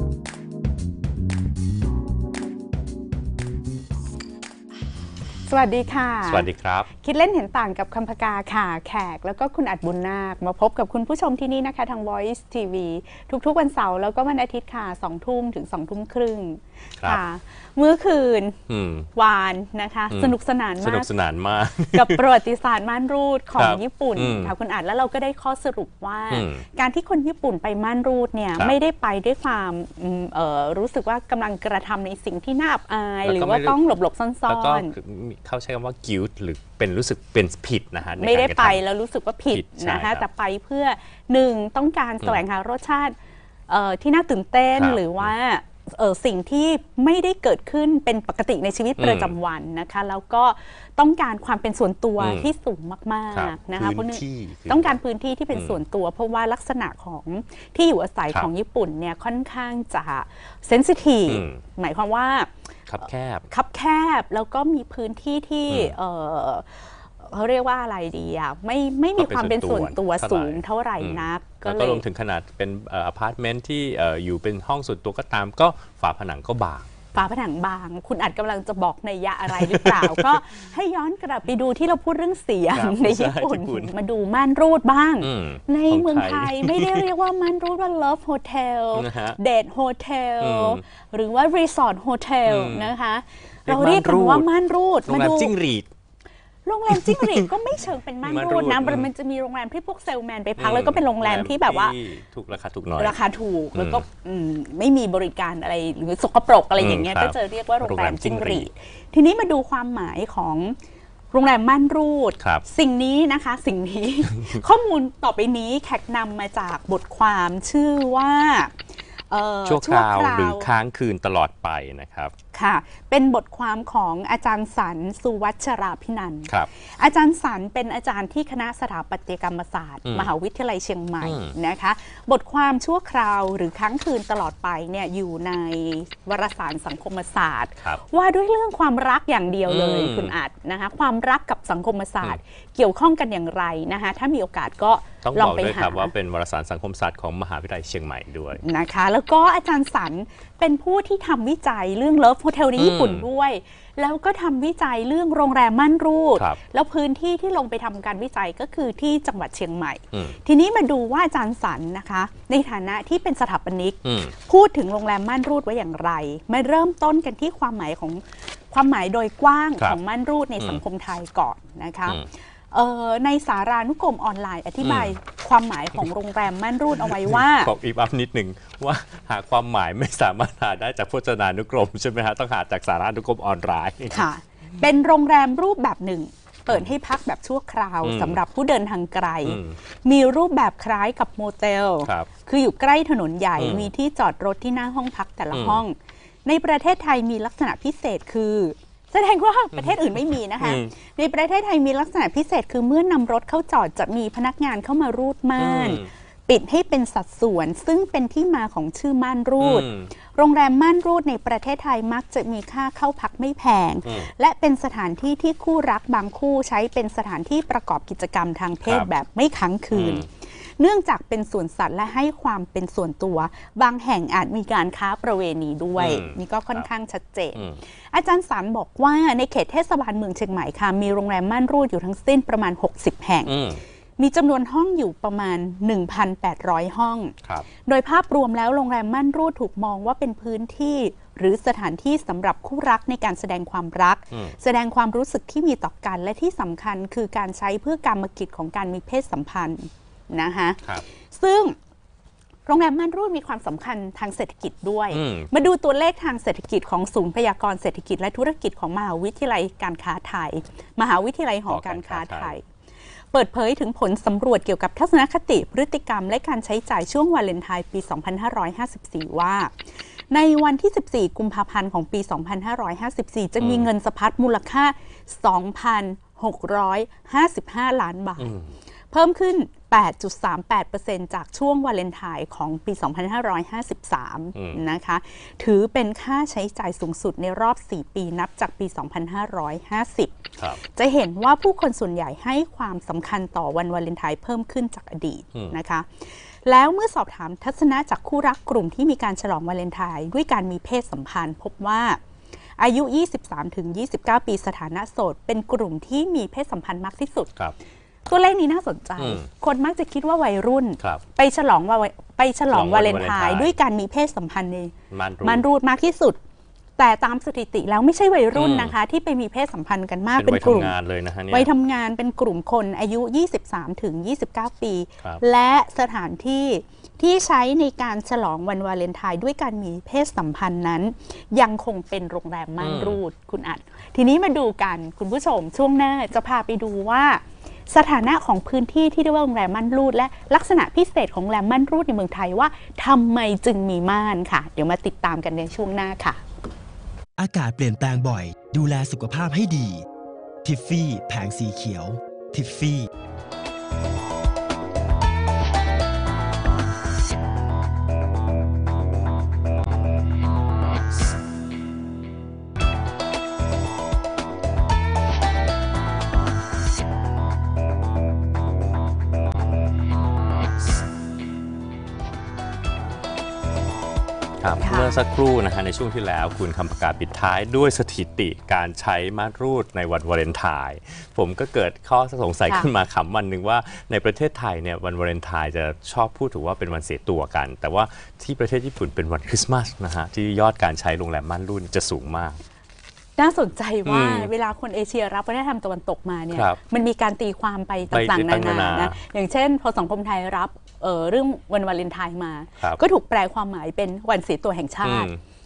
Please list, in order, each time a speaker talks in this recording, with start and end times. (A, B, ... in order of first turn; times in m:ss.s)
0:05.4-0:18.6 A
0:06.2-0:06.9 B
0:18.7-0:19.1 B
0:19.1-0:21.1 A
0:20.1-0:22.2 B
0:21.9-0:34.9 A
0:23.6-0:24.5 B
0:26.3-0:26.6 B
0:33.2-0:33.8 B
0:34.5-0:38.8 B
0:38.2-0:43.1 A
0:39.5-0:40.2 B
0:43.7-1:02.5 A
0:44.7-0:45.3 B
0:49.0-0:49.3 B
0:52.2-0:52.5 B
0:53.3-0:55.0 B
0:55.5-0:55.8 B
1:01.3-1:01.6 B
1:02.9-1:03.4 B
1:03.5-1:12.0 A
1:05.7-1:06.0 B
1:09.2-1:16.9 B
1:17.1-1:35.5 A
1:19.5-1:20.4 B
1:22.7-1:23.9 B
1:25.2-1:27.1 B
1:28.9-1:29.4 B
1:30.4-1:30.8 B
1:32.4-1:32.9 B
1:33.6-1:34.5 B
1:35.1-1:35.9 B
1:36.6-1:42.0 A
1:36.9-1:37.5 B
1:38.2-1:39.1 B
1:40.6-1:43.2 B
1:43.0-1:50.8 A
1:43.7-1:44.0 B
1:46.8-1:48.7 B
1:51.3-1:58.7 A
1:52.4-1:52.6 B
1:59.3-2:00.7 A
1:59.6-2:02.3 B
2:02.5-2:26.1 A
2:11.2-2:11.5 B
2:19.7-2:20.3 B
2:25.2-2:28.6 B
2:28.6-2:57.7 A
2:32.8-2:33.3 B
2:44.0-2:44.3 B
2:54.8-2:55.2 B
2:57.0-3:04.3 B
3:04.1-3:53.5 A
3:08.0-3:08.4 B
3:09.4-3:09.8 B
3:12.0-3:12.3 B
3:13.6-3:13.9 B
3:15.5-3:15.8 B
3:19.7-3:20.9 B
3:25.6-3:26.1 B
3:29.6-3:30.1 B
3:39.9-3:40.2 B
3:46.0-3:46.9 B
3:47.5-3:47.8 B
3:53.4-3:53.8 B
3:54.2-4:11.7 A
4:12.6-4:22.6 A
4:15.1-4:15.5 B
4:21.7-4:22.5 B
4:23.3-4:38.5 A
4:33.6-4:33.9 B
4:38.4-4:38.7 B
4:39.1-5:02.2 A
4:44.5-4:44.8 B
5:02.8-5:07.5 A
5:08.3-5:16.4 A
5:09.2-5:09.5 B
5:12.7-5:13.7 B
5:15.1-5:15.6 B
5:17.0-5:21.0 A
5:18.5-5:19.0 B
5:20.4-5:21.7 B
5:21.5-5:46.4 A
5:32.8-5:33.2 B
5:47.4-5:50.0 C
5:50.6-5:53.1 C
6:14.6-6:32.6 B
6:14.8-6:15.2 A
6:33.4-6:45.3 A
6:34.0-6:34.5 B
6:36.5-6:36.8 B
6:38.1-6:39.2 B
6:45.0-6:45.4 B